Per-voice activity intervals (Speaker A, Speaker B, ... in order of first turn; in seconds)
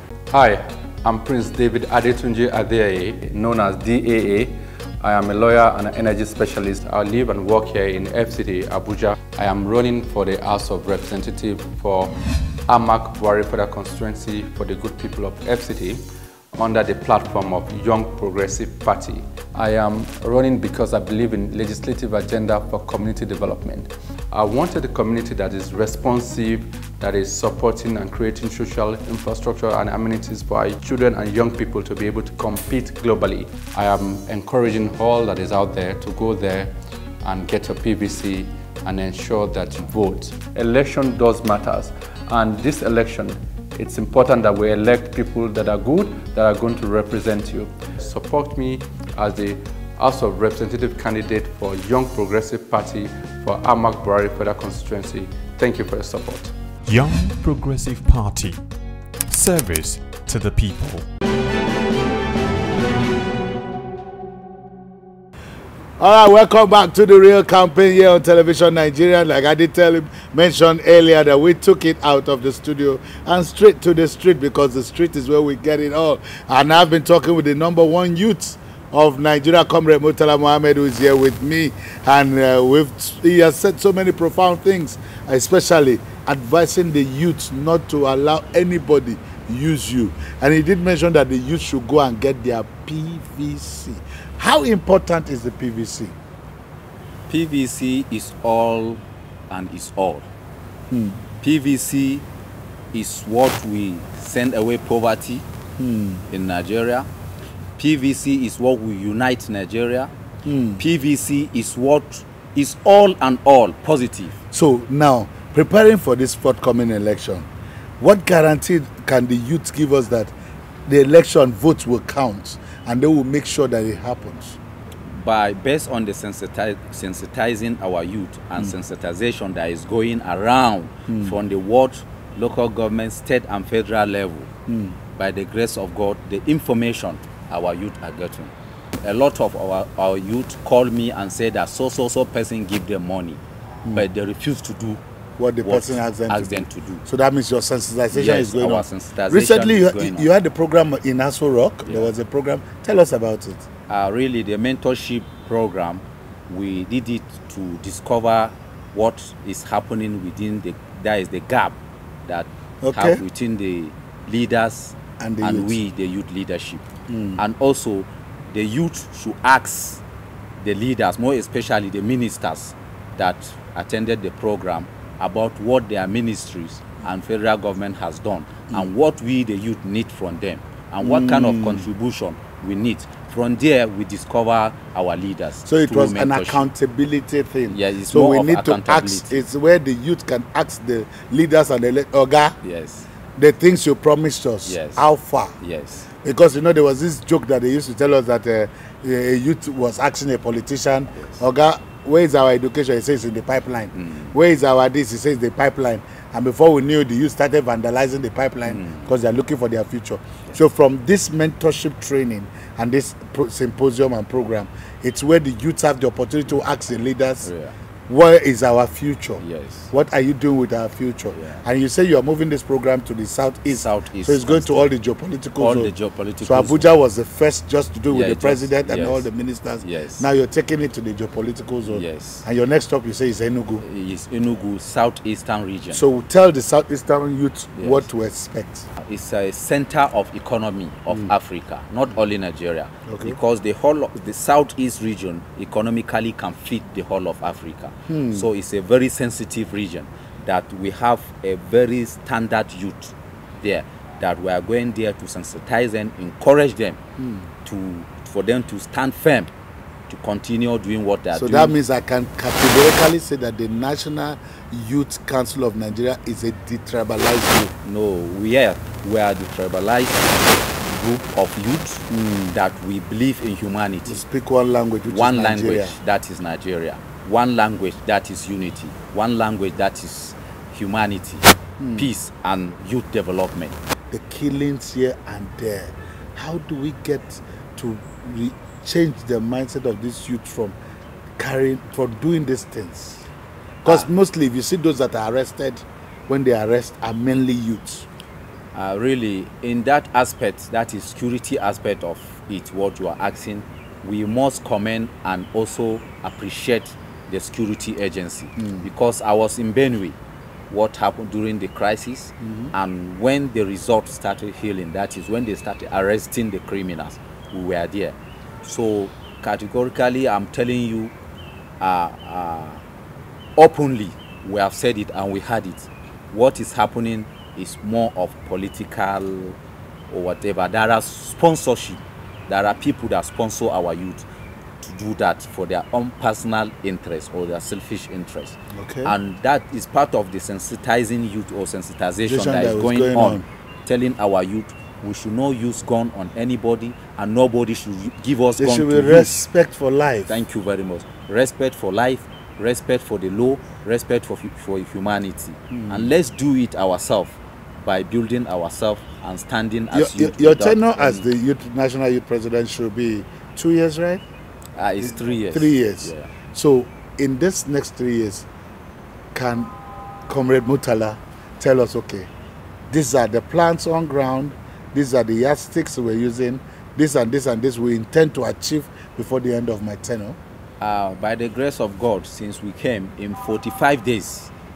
Speaker A: 0.3-56.5
Speaker B: 56.9-58.7, 59.3-61.1
Speaker C: 66.0-96.2, 100.9-101.2, 105.8-106.2, 110.5-110.8, 114.5-117.5, 118.0-120.3, 120.9-124.6, 131.1-131.3, 134.7-135.0, 145.4-153.7, 162.8-163.2, 165.2-165.8, 167.1-167.4, 181.0-181.9, 185.7-192.6, 193.4-195.6, 196.2-217.5, 218.1-233.8, 235.9-238.9, 243.1-243.4, 248.1-248.5, 257.2-257.5, 261.3-267.7, 272.1-272.6, 274.1-276.0, 281.8-282.1, 284.1-290.8, 291.4-293.3, 293.8-298.1, 338.7-339.2, 342.2-343.4, 348.6-350.4, 355.7-356.1, 359.9-364.2, 365.0-368.5, 369.3-369.7, 370.3-372.3, 372.9-380.4
Speaker D: 97.3-100.3, 101.4-102.2, 102.9-105.5, 106.3-107.1, 107.8-110.1, 110.8-114.4, 125.1-134.5, 135.1-143.4, 143.9-145.0, 145.6-147.0, 148.1-150.3, 151.8-152.1, 153.9-170.0, 170.6-186.6, 187.7-189.4, 192.6-193.1, 194.7-195.1, 195.6-196.1, 203.9-204.3, 208.7-209.1, 217.4-217.7, 219.4-219.9, 221.3-221.6, 223.7-224.9, 225.6-226.9, 228.1-229.3, 229.8-230.3, 231.9-232.4, 233.8-236.0, 237.8-238.1, 239.0-257.0, 257.6-259.5, 260.1-261.7, 267.8-274.2, 275.1-283.8, 298.7-310.2, 310.7-321.1, 321.8-322.8, 323.6-329.6, 330.1-334.2, 334.8-349.3, 350.3-361.2, 364.8-366.3, 380.8-384.5